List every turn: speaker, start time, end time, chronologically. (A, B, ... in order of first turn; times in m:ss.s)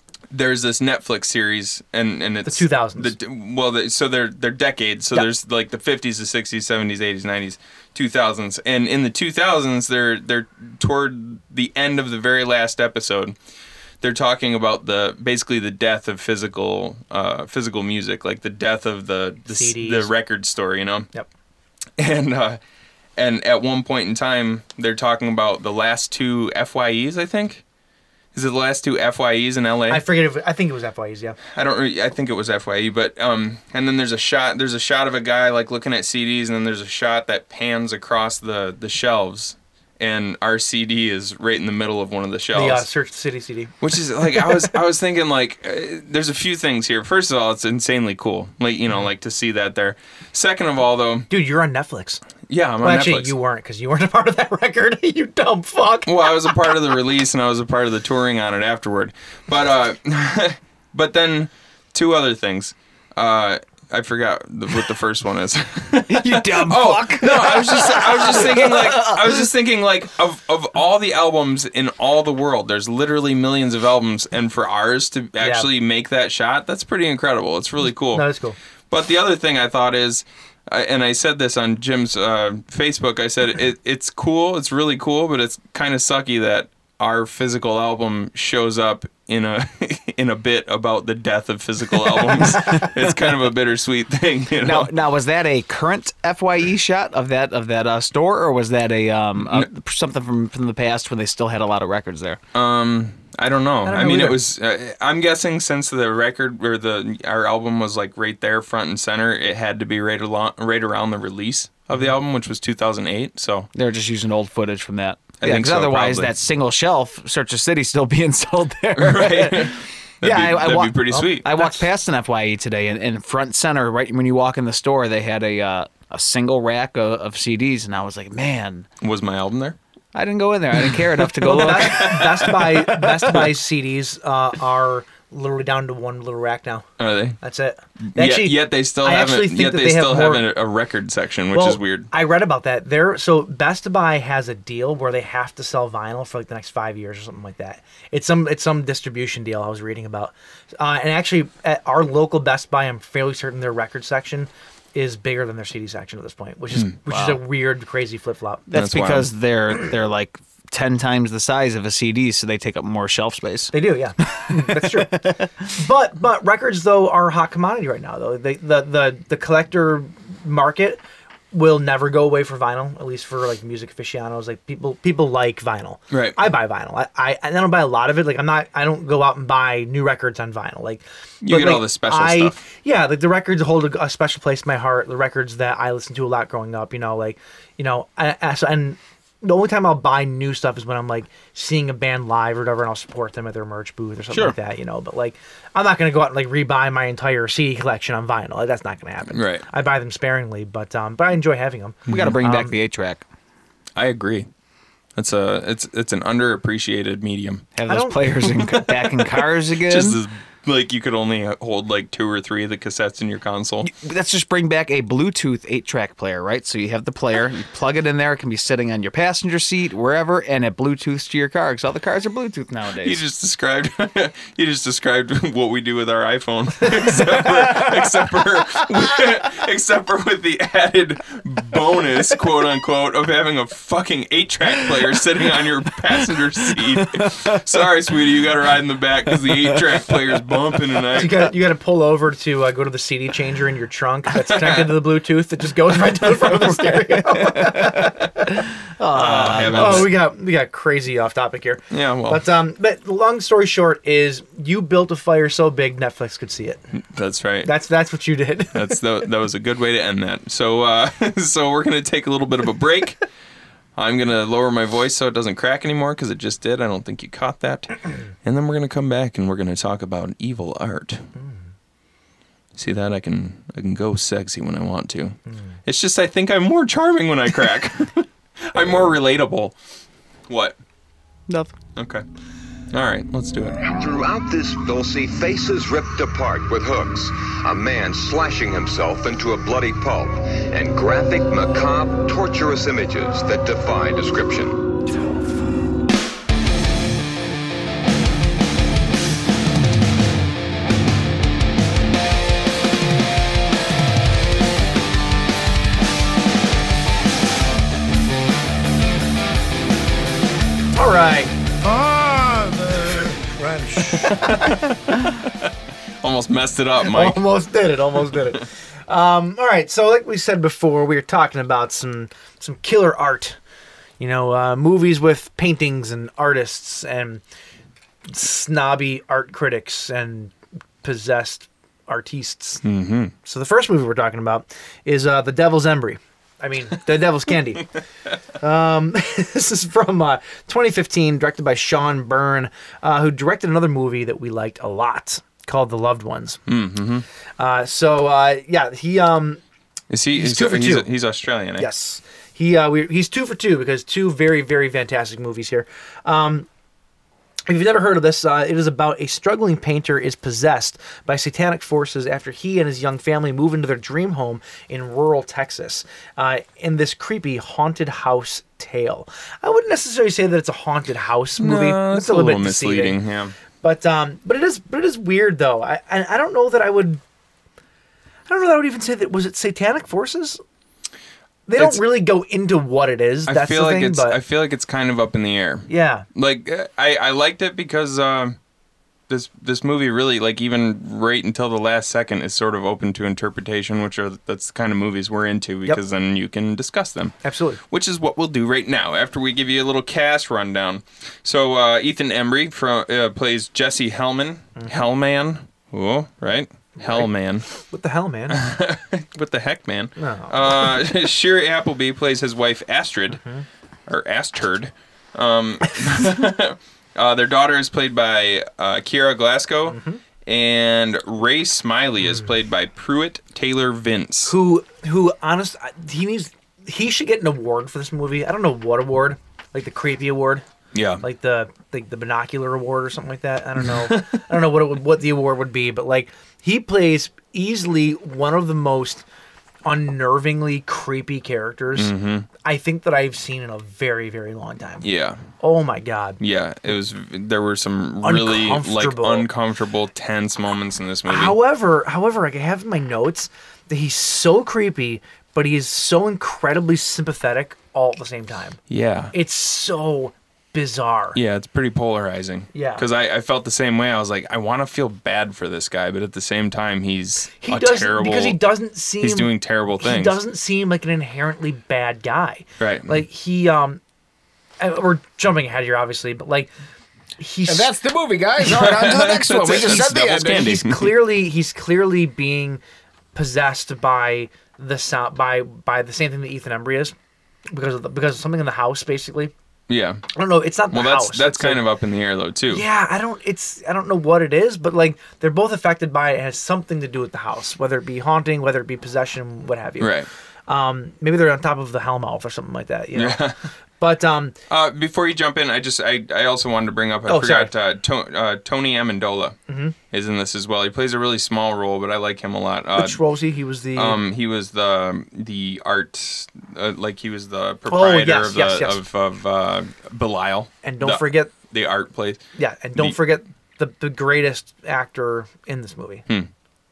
0:00.3-0:13.4 A
0:02.4-0:03.1 B
0:14.0-0:21.1 A
0:19.5-0:20.1 B
0:22.0-0:22.6 A
0:23.2-0:27.6 A
0:28.3-0:30.0 A
0:29.9-0:31.4 B
0:31.5-0:42.9 A
0:42.5-0:44.7 B
0:43.8-0:51.3 A
0:51.3-0:52.2 B
0:52.5-0:53.3 A
0:52.8-0:56.7 B
0:56.1-1:18.3 A
1:06.1-1:09.5 C
1:15.4-1:15.7 B
1:18.1-1:18.6 B
1:18.9-1:34.9 A
1:34.6-1:42.4 C
1:39.4-1:39.7 A
1:42.5-1:53.7 A
1:43.9-1:44.4 B
1:53.8-2:08.9 C
1:55.4-1:56.3 A
1:59.0-2:01.5 A
2:01.1-2:01.8 B
2:09.0-2:09.8 A
2:10.1-2:13.4 C
2:10.8-2:12.9 A
2:11.4-2:16.9 B
2:17.0-2:17.4 A
2:17.4-2:20.5 B
2:18.1-2:22.1 A
2:21.5-2:38.7 B
2:37.1-2:37.4 C
2:38.7-2:45.5 C
2:38.7-2:39.3 A
2:43.7-2:51.0 B
2:51.5-3:22.8 B
2:56.1-2:56.4 A
3:01.4-3:02.6 A
3:19.3-3:19.6 A
3:22.1-3:22.4 A
3:22.1-3:23.2 C
3:24.0-3:24.5 A
3:25.2-3:27.7 A
3:27.8-3:30.2 C
3:27.9-3:28.9 B
3:29.9-3:33.9 A
3:33.8-3:43.2 C
3:43.0-4:01.5 A
3:56.6-3:57.6 C
4:01.2-4:16.8 B
4:04.5-4:04.9 A
4:06.9-4:08.1 C
4:09.2-4:10.1 C
4:09.2-4:10.1 A
4:11.9-4:12.4 A
4:17.1-4:17.7 A
4:17.6-4:19.0 B
4:18.7-4:23.2 A
4:24.0-4:31.3 A
4:32.8-4:39.8 A
4:40.5-4:40.8 A
4:41.5-4:41.7 C
4:42.0-4:42.2 A
4:42.9-4:43.8 A
4:43.8-4:54.8 D
5:11.0-5:11.5 B
5:13.0-5:15.0 B
5:14.2-5:15.7 A
5:16.2-5:17.4 A
5:17.0-5:23.6 B
5:24.2-5:27.4 B
5:28.3-5:32.8 B
5:32.8-5:33.3 A
5:33.4-5:37.9 B
5:38.6-5:46.6 B
5:46.7-5:47.2 A
5:47.6-5:49.6 B
5:50.1-5:51.9 A
5:50.4-5:51.1 B
5:51.8-5:56.7 B
5:57.7-6:13.2 B
6:11.6-6:13.5 A
6:13.8-6:17.2 B
6:18.5-6:20.6 B
6:21.7-6:24.4 B
6:23.5-6:28.6 A
6:25.9-6:26.2 B
6:29.3-6:37.4 A
6:37.4-6:37.8 B
6:37.9-6:47.7 A
6:47.0-6:48.6 B
6:48.5-6:53.4 A
6:50.2-6:50.9 B
6:53.4-6:53.6 B
6:54.1-7:04.5 A
6:59.9-7:00.2 B
7:04.5-7:10.6 B
7:10.9-7:11.2 A
7:11.2-7:19.2 B
7:14.1-7:14.4 A
7:19.8-7:25.1 B
7:22.0-7:22.5 A
7:25.0-7:25.4 A
7:25.6-7:26.4 B
7:26.4-7:31.6 A
7:28.2-7:29.5 B
7:31.3-7:38.8 B
7:38.9-7:39.3 A
7:39.3-7:41.4 B
7:41.4-7:48.6 A
7:42.7-7:43.0 B
7:47.6-7:54.0 B
7:49.2-7:50.4 A
7:52.8-7:53.2 A
7:54.8-7:56.7 B
7:57.4-7:57.9 B
7:57.7-8:00.8 C
7:58.6-8:01.2 A
7:59.9-8:02.8 B
8:03.4-8:07.2 B
8:07.7-8:09.5 B
8:09.9-8:10.2 A
8:10.3-8:11.8 B
8:10.9-8:12.8 A
8:12.7-8:23.4 B
8:20.0-8:20.3 A
8:23.2-8:23.6 A
8:24.0-8:24.6 B
8:24.7-8:29.6 A
8:27.3-8:27.7 B
8:29.7-8:30.0 B
8:30.1-8:33.2 A
8:33.0-8:34.2 B
8:34.0-8:42.4 A
8:37.9-8:39.0 B
8:40.8-8:41.5 B
8:42.6-8:46.3 B